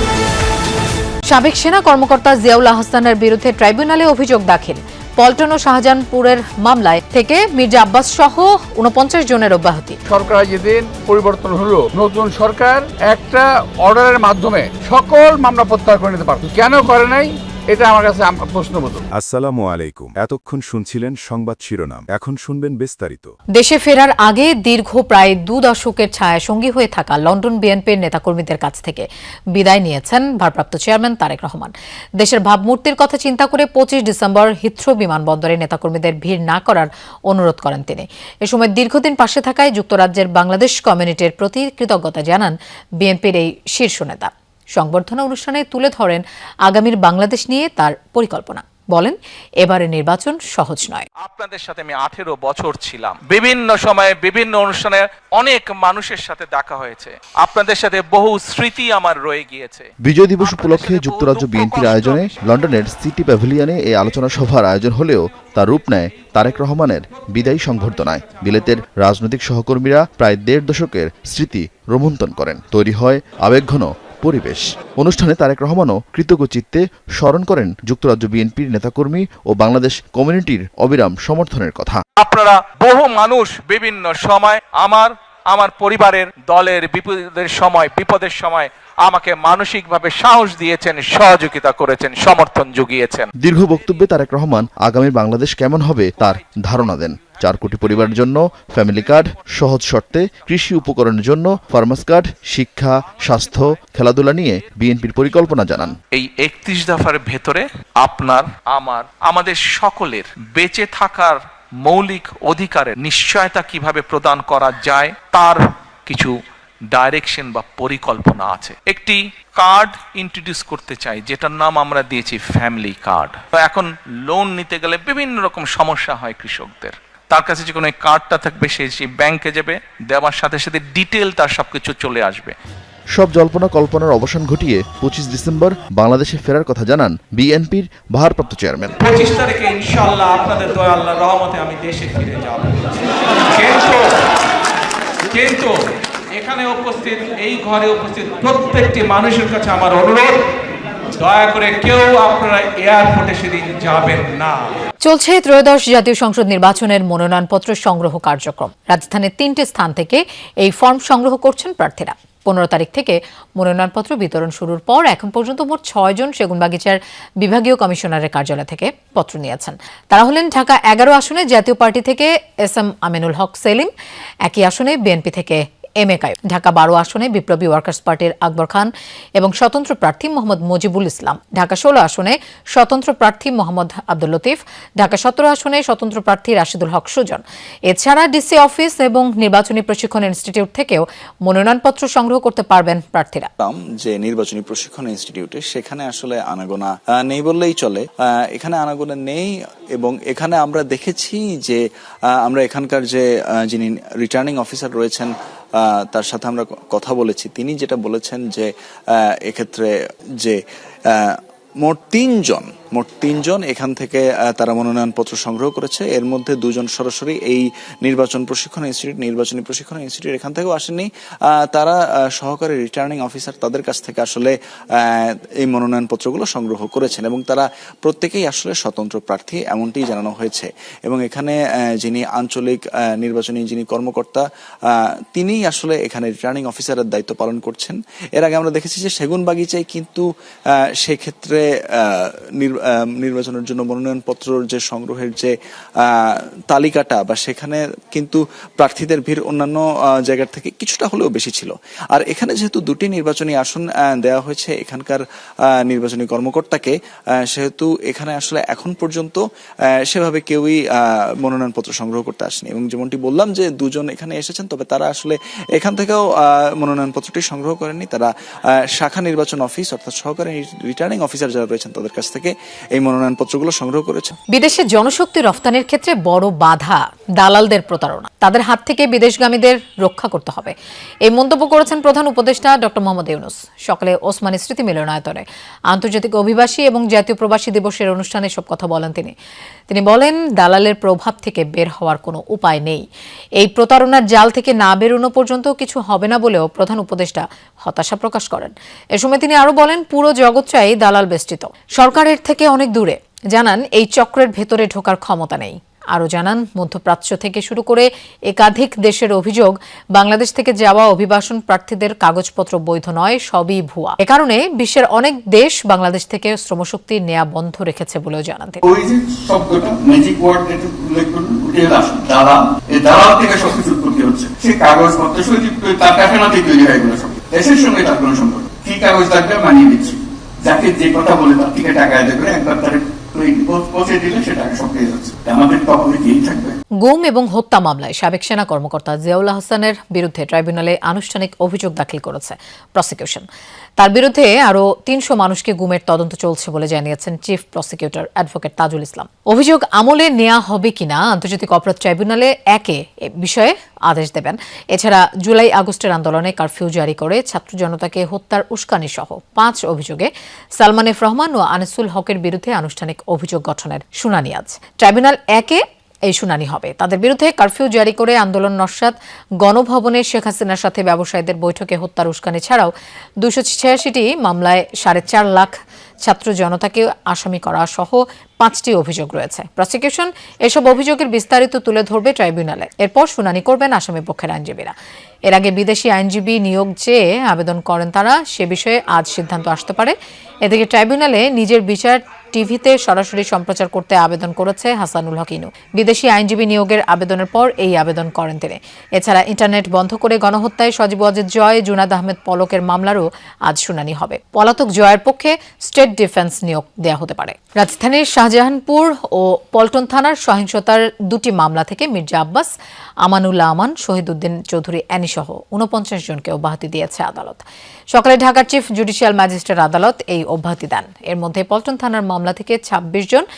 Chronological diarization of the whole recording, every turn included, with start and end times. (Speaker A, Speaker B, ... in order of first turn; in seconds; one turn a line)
Speaker A: 1.3-10.0
Speaker B: 10.1-19.0
Speaker C: 19.1-23.3
Speaker A: 23.6-51.1
Speaker D: 51.2-59.9
Speaker E: 60.0-82.0
Speaker D: 60.4-62.4
Speaker D: 82.2-93.3
Speaker E: 93.4-106.0
Speaker D: 106.1-116.3
Speaker D: 116.9-132.6
Speaker E: 133.1-138.9
Speaker D: 139.0-144.1
Speaker D: 145.3-145.7
Speaker D: 146.3-150.4
Speaker D: 151.2-154.8
Speaker A: 155.0-173.9
Speaker A: 174.4-193.5
Speaker F: 193.6-201.8
Speaker F: 202.4-205.3
Speaker F: 206.1-210.6
Speaker F: 211.1-240.2
Speaker F: 241.0-255.2
Speaker F: 255.8-256.9
Speaker F: 257.5-259.4
Speaker F: 260.1-268.3
Speaker F: 268.9-274.3
Speaker A: 274.5-289.3
Speaker A: 289.9-293.0
Speaker A: 293.6-318.8
Speaker G: 318.8-336.8
Speaker A: 337.0-343.5
Speaker A: 344.0-384.9
Speaker A: 385.5-412.7
Speaker A: 413.2-423.4